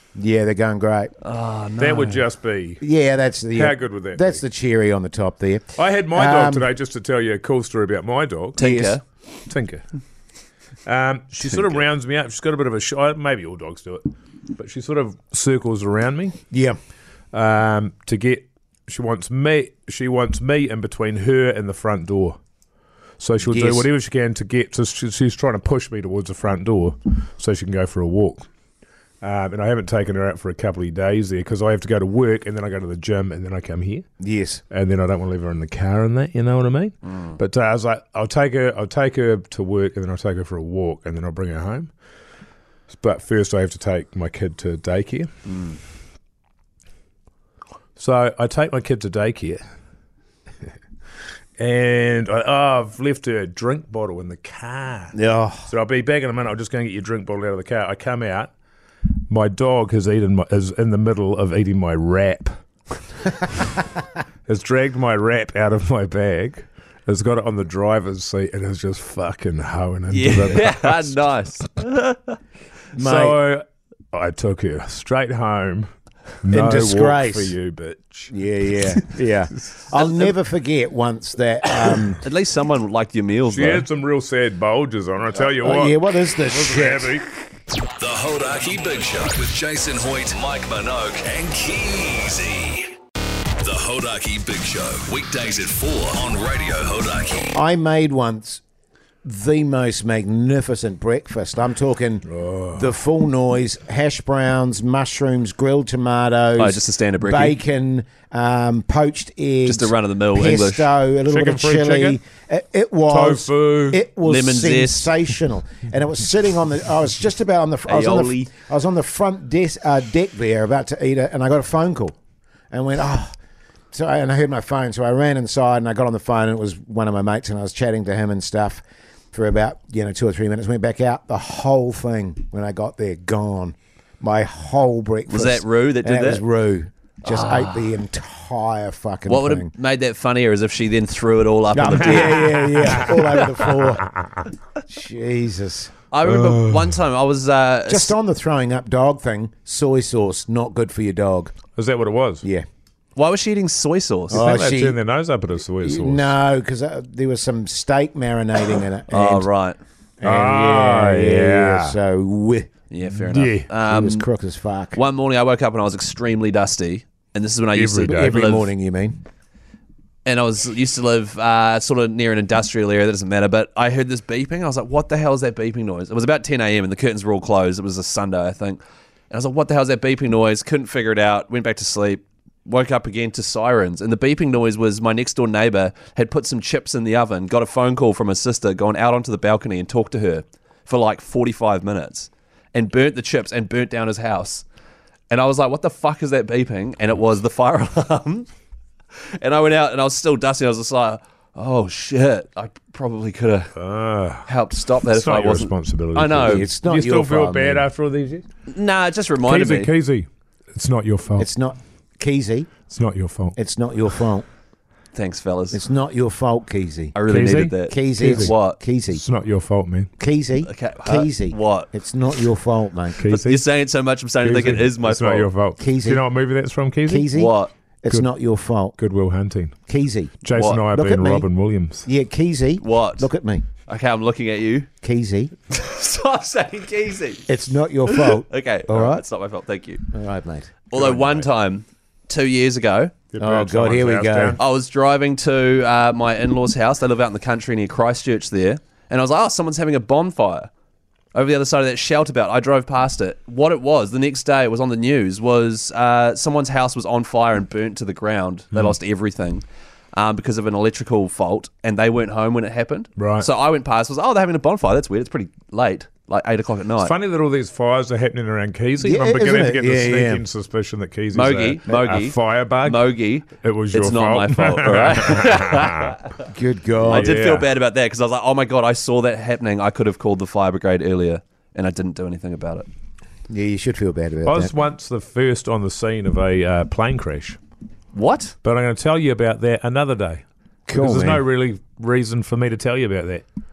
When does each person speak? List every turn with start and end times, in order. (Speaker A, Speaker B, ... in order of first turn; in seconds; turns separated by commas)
Speaker A: 0.2-1.1, Speaker B: 1.2-2.2, Speaker C: 1.8-2.8, Speaker A: 2.8-6.7, Speaker C: 3.5-4.4, Speaker C: 5.8-8.6, Speaker B: 8.6-9.0, Speaker A: 8.6-9.0, Speaker C: 9.5-9.8, Speaker C: 10.9-16.4, Speaker B: 11.4-11.8, Speaker A: 16.5-16.8, Speaker C: 17.3-22.4, Speaker C: 23.2-28.4, Speaker A: 23.4-23.9, Speaker C: 29.2-34.1, Speaker A: 34.2-34.6, Speaker C: 34.7-41.9, Speaker C: 42.9-45.3, Speaker B: 45.5-45.8, Speaker C: 48.0-49.6, Speaker C: 51.6-58.5, Speaker A: 55.1-55.7, Speaker C: 59.3-62.5, Speaker C: 63.3-63.9, Speaker C: 64.5-71.2, Speaker B: 70.1-72.4, Speaker C: 73.0-75.9, Speaker A: 73.0-73.4, Speaker C: 76.4-78.3, Speaker A: 76.5-77.6, Speaker A: 78.3-82.2, Speaker B: 82.2-83.9, Speaker C: 83.5-87.3, Speaker A: 85.6-87.2, Speaker D: 88.0-92.9, Speaker D: 93.6-97.5, Speaker B: 95.2-95.7, Speaker A: 97.5-98.6, Speaker A: 99.2-122.2, Speaker C: 102.3-102.9, Speaker B: 106.6-107.6, Speaker B: 109.7-111.0, Speaker C: 111.3-112.2, Speaker C: 113.1-114.1, Speaker B: 114.2-115.1, Speaker B: 117.9-118.5, Speaker A: 122.7-123.3, Speaker A: 123.9-139.7, Speaker B: 135.3-136.4, Speaker B: 137.2-138.0, Speaker B: 139.3-143.1, Speaker A: 141.7-144.1, Speaker C: 142.2-143.4, Speaker A: 144.8-145.9, Speaker B: 146.1-148.2, Speaker C: 146.3-147.0, Speaker A: 147.9-151.6, Speaker C: 151.8-152.4, Speaker B: 153.2-154.6, Speaker A: 154.3-155.0, Speaker C: 154.3-156.3, Speaker A: 155.8-159.5, Speaker B: 159.1-159.8, Speaker A: 160.2-162.7, Speaker C: 160.2-161.9, Speaker B: 162.9-164.3, Speaker C: 163.2-163.7, Speaker A: 163.8-165.0, Speaker B: 164.9-168.7, Speaker C: 167.7-168.4, Speaker A: 168.1-169.2, Speaker B: 170.2-194.7, Speaker B: 195.3-198.5, Speaker B: 199.4-203.7, Speaker C: 203.8-204.5, Speaker B: 204.5-206.7, Speaker C: 205.1-208.4, Speaker A: 206.5-207.9, Speaker B: 208.7-209.9, Speaker C: 209.4-211.5, Speaker A: 211.4-212.7, Speaker C: 212.9-213.6, Speaker A: 213.6-214.5, Speaker B: 215.1-215.8, Speaker A: 215.7-217.2, Speaker B: 217.1-218.8, Speaker C: 217.3-218.6, Speaker A: 217.9-219.2, Speaker C: 219.1-220.1, Speaker A: 220.2-223.3, Speaker B: 220.6-221.9, Speaker C: 223.2-223.7, Speaker B: 223.2-225.5, Speaker C: 224.4-227.3, Speaker A: 225.8-226.3, Speaker A: 227.1-229.0, Speaker B: 227.3-227.7, Speaker C: 229.0-229.8, Speaker A: 229.9-231.5, Speaker C: 230.4-232.1, Speaker B: 230.5-230.8, Speaker A: 232.1-233.7, Speaker B: 232.8-233.3, Speaker B: 233.9-234.9, Speaker A: 235.0-235.5, Speaker B: 235.7-237.6, Speaker A: 237.5-239.2, Speaker B: 238.1-240.1, Speaker A: 240.1-240.8, Speaker B: 240.9-243.1, Speaker C: 240.9-241.5, Speaker C: 243.3-244.6, Speaker A: 243.4-244.6, Speaker B: 244.6-250.7, Speaker B: 251.3-267.1, Speaker C: 263.2-263.5, Speaker C: 267.0-276.2, Speaker A: 269.0-270.4, Speaker B: 271.3-276.4, Speaker A: 276.5-277.4, Speaker C: 277.1-277.7, Speaker B: 277.1-282.9, Speaker A: 283.5-284.7, Speaker C: 284.5-287.6, Speaker B: 288.1-288.6, Speaker C: 288.6-293.4, Speaker A: 290.9-291.4